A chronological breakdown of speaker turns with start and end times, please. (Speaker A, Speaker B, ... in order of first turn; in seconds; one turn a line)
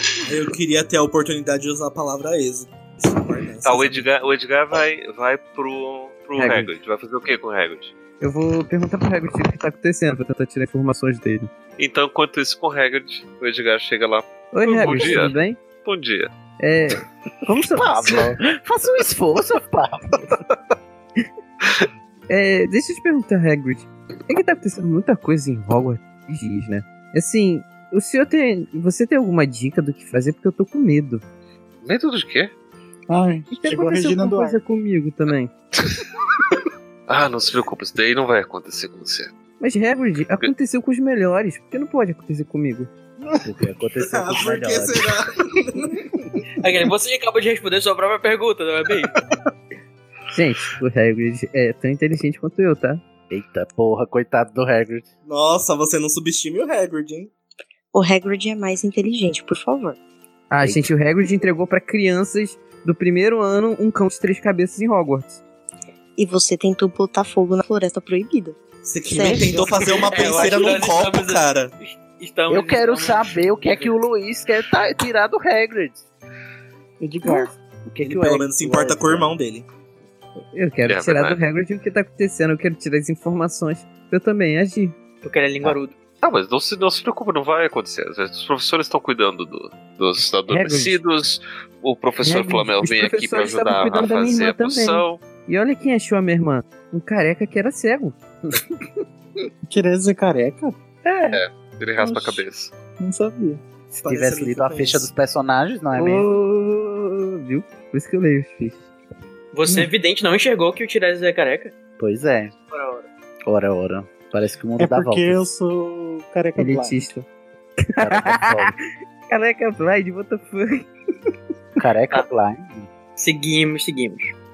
Speaker A: 0.2-4.0
Speaker B: 3.6-7.9
Speaker C: 6.3-6.7
Speaker C: 8.2-11.5
Speaker B: 11.8-16.3
Speaker C: 14.5-15.6
Speaker C: 16.6-18.3
Speaker D: 17.8-20.4
Speaker C: 22.3-31.2
Speaker B: 31.8-32.5
Speaker E: 33.1-34.6
Speaker C: 33.5-35.5
Speaker B: 37.1-39.3
Speaker C: 39.6-42.9
Speaker D: 43.4-45.1
Speaker A: 44.0-45.8
Speaker F: 46.6-49.1
Speaker C: 50.3-53.0
Speaker D: 53.3-55.1
Speaker A: 55.2-57.3
Speaker G: 57.9-60.0
Speaker C: 60.5-65.4
Speaker D: 60.6-60.9
Speaker G: 66.2-68.6
Speaker A: 68.8-71.7
Speaker G: 69.1-69.8
Speaker F: 69.7-73.9
Speaker D: 72.5-76.0
Speaker E: 77.0-77.5
Speaker D: 77.2-79.3
Speaker A: 78.0-79.7
Speaker C: 80.5-85.0
Speaker B: 80.8-81.4
Speaker F: 85.2-86.0
Speaker B: 86.2-95.2
Speaker C: 90.5-91.0
Speaker C: 92.2-98.2
Speaker E: 99.7-100.8
Speaker B: 101.3-102.7
Speaker E: 102.0-102.4
Speaker E: 103.0-103.6
Speaker D: 103.9-106.2
Speaker A: 104.0-105.1
Speaker C: 105.9-108.9
Speaker F: 109.5-111.7
Speaker D: 112.0-112.5
Speaker F: 112.7-113.1
Speaker D: 113.5-115.4
Speaker E: 114.8-117.1
Speaker C: 116.6-117.3
Speaker C: 117.8-118.7
Speaker D: 118.0-118.7
Speaker C: 119.3-120.9
Speaker D: 121.8-122.9
Speaker F: 123.2-124.3